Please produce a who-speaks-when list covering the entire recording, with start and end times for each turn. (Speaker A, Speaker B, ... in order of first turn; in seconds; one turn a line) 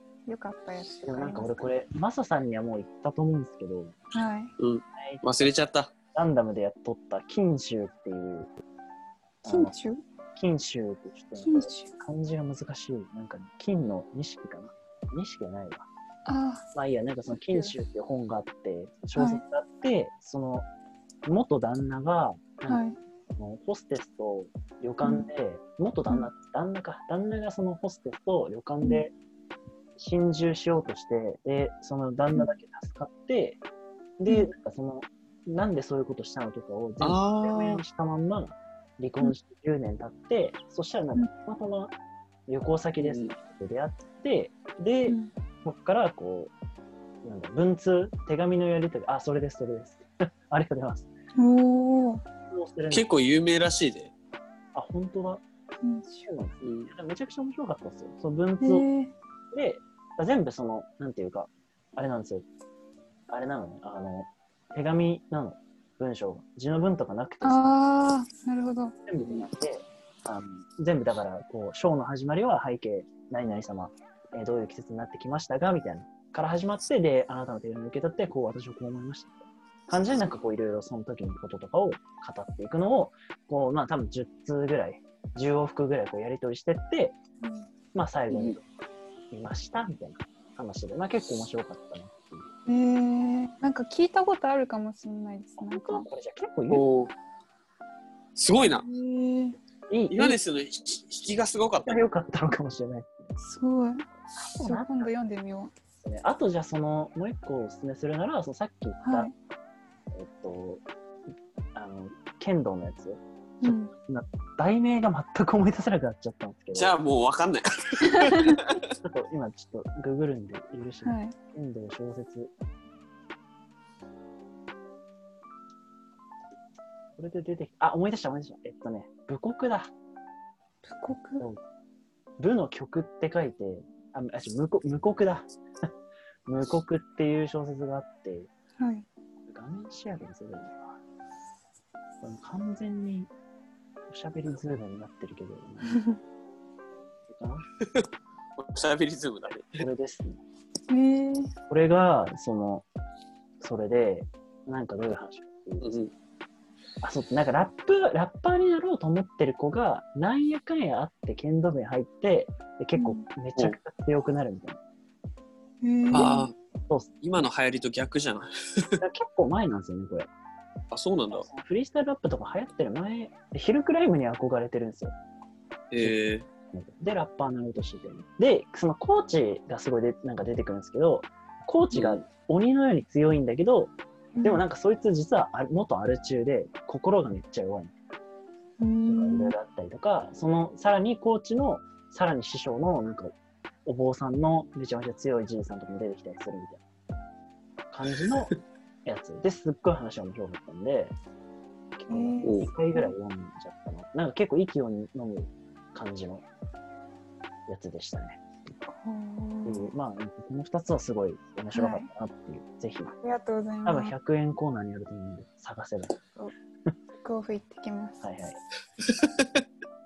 Speaker A: 0.3-1.6
Speaker B: 1.0-4.0
Speaker A: 4.1-4.5
Speaker C: 4.6-5.9
Speaker B: 5.0-5.5
Speaker B: 6.1-8.5
Speaker B: 9.4-9.7
Speaker A: 9.5-10.0
Speaker B: 10.3-15.9
Speaker A: 11.4-12.0
Speaker A: 16.2-16.6
Speaker B: 16.7-20.7
Speaker A: 17.3-17.7
Speaker A: 19.1-19.4
Speaker B: 21.2-22.8
Speaker A: 22.7-23.0
Speaker B: 23.4-29.1
Speaker A: 25.0-25.3
Speaker B: 30.0-33.6
Speaker B: 34.2-41.9
Speaker C: 37.0-37.8
Speaker B: 42.5-46.5
Speaker C: 43.0-43.3
Speaker B: 47.2-51.1
Speaker A: 51.4-52.2
Speaker B: 52.5-53.0
Speaker C: 52.9-54.1
Speaker B: 54.7-55.4
Speaker A: 55.8-56.2
Speaker B: 56.2-58.9
Speaker C: 56.6-56.9
Speaker A: 58.6-59.1
Speaker B: 59.5-62.5
Speaker B: 63.3-67.6
Speaker A: 67.4-69.0
Speaker B: 69.0-87.2
Speaker A: 87.4-87.7
Speaker B: 87.9-88.6
Speaker A: 88.3-88.5
Speaker B: 89.3-92.5
Speaker A: 92.7-96.1
Speaker B: 95.6-96.8
Speaker C: 96.7-97.1
Speaker C: 98.3-98.8
Speaker A: 98.6-99.6
Speaker B: 99.9-100.4
Speaker C: 100.1-102.0
Speaker B: 101.8-103.3
Speaker A: 103.4-105.7
Speaker B: 104.3-105.1
Speaker B: 106.0-109.3
Speaker A: 109.0-109.3
Speaker B: 110.1-110.8
Speaker B: 111.7-116.9
Speaker A: 113.6-113.9
Speaker C: 116.7-118.8
Speaker A: 118.2-118.6
Speaker B: 119.0-122.5
Speaker A: 121.0-121.3
Speaker B: 127.2-129.9
Speaker A: 130.8-131.4
Speaker B: 132.4-135.9
Speaker B: 136.5-138.5
Speaker A: 138.8-139.1
Speaker B: 139.5-140.9
Speaker B: 142.2-143.3
Speaker B: 144.1-146.0
Speaker A: 145.8-146.2
Speaker B: 147.3-147.7
Speaker C: 147.8-149.8
Speaker B: 149.8-150.4
Speaker A: 150.9-151.5
Speaker B: 151.7-152.8
Speaker B: 153.6-156.0
Speaker C: 155.8-156.1
Speaker B: 157.0-164.8
Speaker A: 163.0-163.2
Speaker A: 165.8-166.5
Speaker C: 166.1-166.5
Speaker B: 166.9-167.4
Speaker C: 167.2-169.0
Speaker B: 169.0-170.3
Speaker C: 170.9-171.5
Speaker B: 171.3-175.1
Speaker C: 175.9-176.4
Speaker B: 176.7-183.9
Speaker C: 181.9-182.2
Speaker A: 184.3-184.6
Speaker B: 184.4-187.9
Speaker A: 188.8-189.5
Speaker B: 189.0-193.3
Speaker B: 193.8-196.8
Speaker B: 197.9-198.5
Speaker B: 199.0-201.1
Speaker B: 202.0-206.4
Speaker A: 202.1-203.1
Speaker C: 202.4-202.7
Speaker B: 207.7-208.5
Speaker A: 208.9-209.9
Speaker B: 209.6-213.1
Speaker A: 211.7-212.1
Speaker A: 213.2-214.1
Speaker B: 213.8-216.2
Speaker A: 217.1-218.6
Speaker B: 218.2-218.6
Speaker C: 219.0-219.6